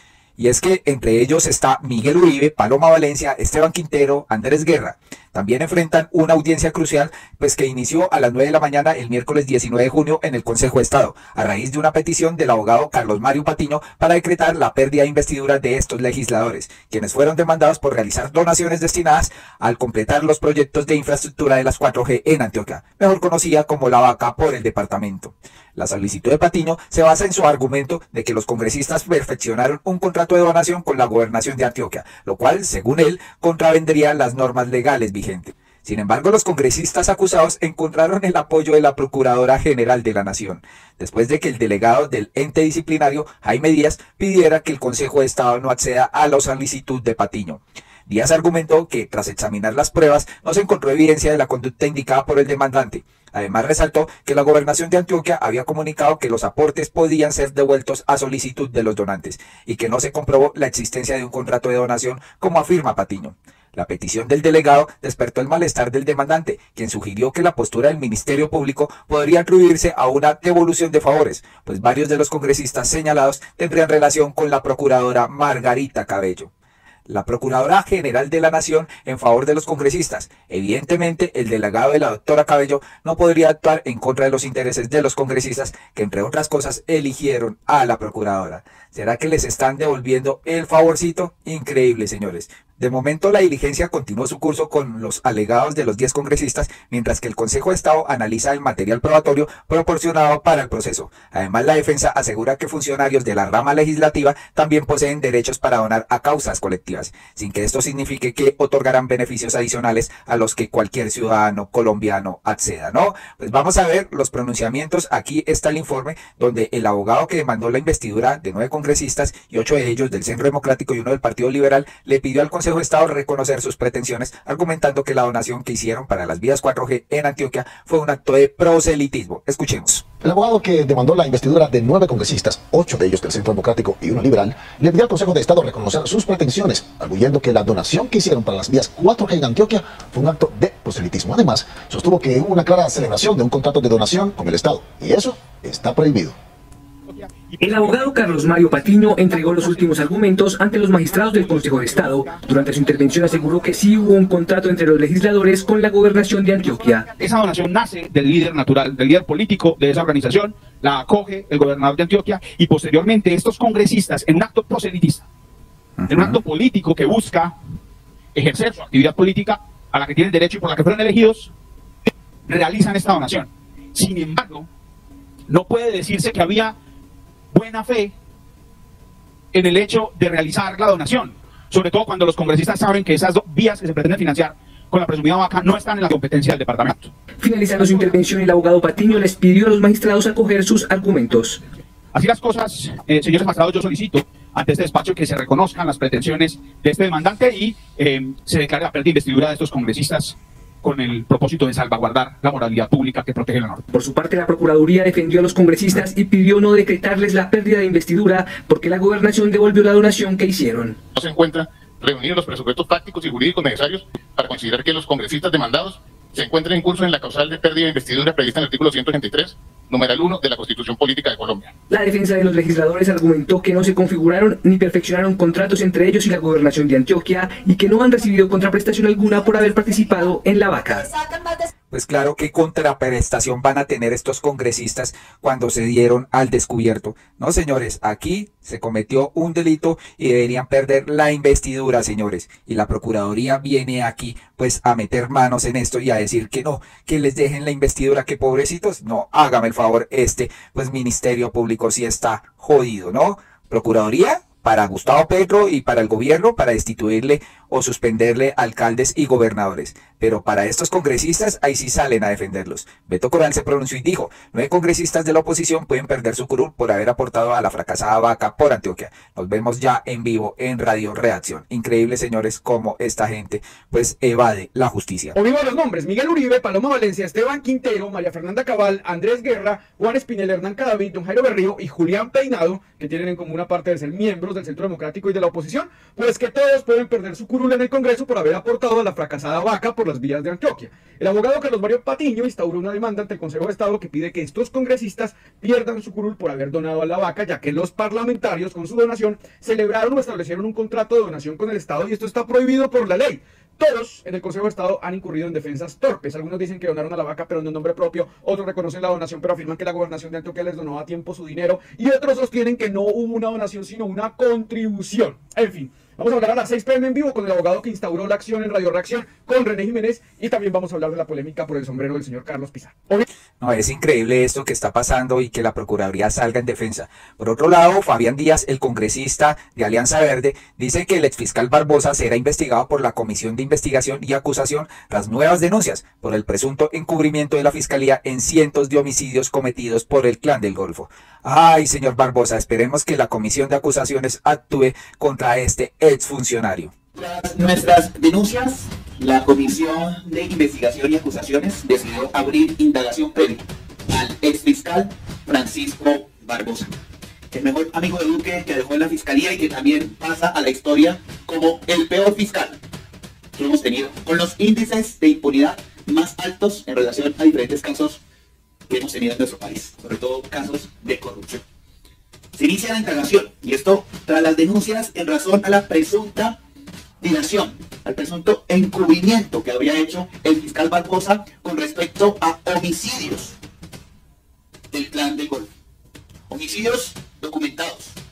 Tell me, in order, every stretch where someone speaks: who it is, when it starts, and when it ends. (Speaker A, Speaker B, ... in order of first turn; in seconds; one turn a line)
Speaker A: 0.4-76.5
Speaker A: 77.1-130.0
Speaker B: 130.2-146.3
Speaker C: 147.1-150.1
Speaker D: 147.6-157.1
Speaker C: 150.8-153.9
Speaker C: 156.6-165.2
Speaker A: 166.0-166.4
Speaker C: 166.1-167.5
Speaker C: 168.3-171.5
Speaker C: 172.5-174.7
Speaker C: 175.5-176.7
Speaker C: 177.5-178.1
Speaker C: 179.5-187.1
Speaker D: 187.4-191.6
Speaker C: 187.8-188.2
Speaker C: 192.1-203.8
Speaker D: 203.9-211.0
Speaker E: 211.2-221.7
Speaker D: 221.9-231.1
Speaker A: 231.9-275.4
Speaker F: 275.3-323.2
Speaker A: 323.6-346.9
Speaker G: 347.1-356.9
Speaker G: 357.5-362.8
Speaker G: 363.6-368.2
Speaker G: 368.9-371.6
Speaker G: 372.6-376.6
Speaker G: 377.2-383.6
Speaker G: 384.9-385.7
Speaker G: 386.5-388.1